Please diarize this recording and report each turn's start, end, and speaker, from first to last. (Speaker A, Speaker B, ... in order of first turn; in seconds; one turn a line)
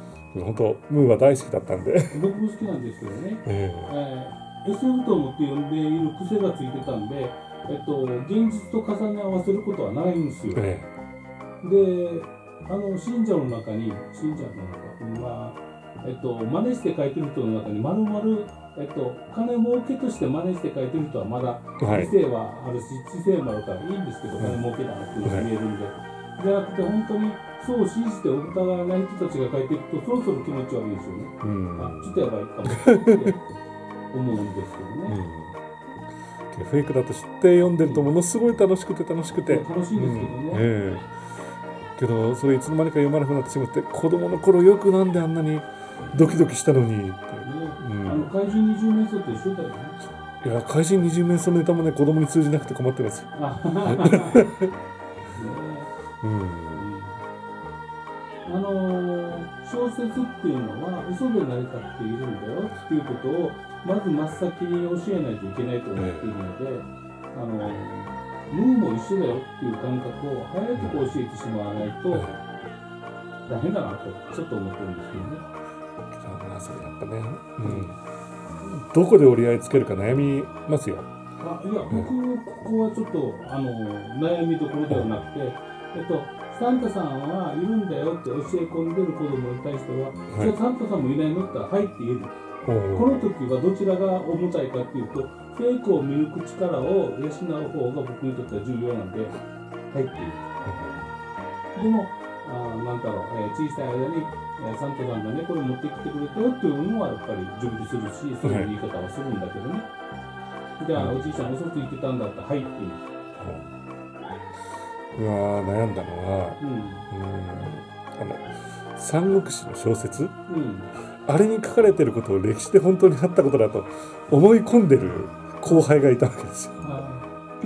Speaker A: 0.3-2.2
Speaker B: 2.1-10.6
Speaker A: 3.4-3.9
Speaker A: 10.5-10.9
Speaker B: 11.6-33.4
Speaker A: 21.8-22.1
Speaker A: 31.4-32.2
Speaker A: 32.8-33.4
Speaker B: 34.1-35.2
Speaker A: 35.1-35.6
Speaker A: 36.5-41.1
Speaker B: 37.8-38.1
Speaker B: 39.5-40.6
Speaker A: 42.0-48.3
Speaker B: 46.0-46.4
Speaker B: 47.4-50.0
Speaker A: 50.4-54.7
Speaker B: 53.3-54.5
Speaker B: 55.3-55.9
Speaker A: 56.2-56.9
Speaker B: 56.7-57.2
Speaker B: 58.4-72.3
Speaker A: 66.0-66.3
Speaker A: 70.7-71.1
Speaker A: 72.1-72.4
Speaker B: 73.5-75.4
Speaker A: 76.1-78.0
Speaker B: 77.6-77.9
Speaker A: 78.6-81.1
Speaker B: 81.4-92.3
Speaker A: 92.6-93.3
Speaker B: 92.9-100.5
Speaker A: 100.6-101.0
Speaker B: 101.7-109.9
Speaker A: 108.4-108.7
Speaker B: 110.8-113.0
Speaker A: 110.9-111.4
Speaker A: 113.4-113.7
Speaker A: 115.1-120.3
Speaker B: 116.6-117.1
Speaker B: 120.5-120.9
Speaker A: 121.2-126.9
Speaker B: 126.8-127.3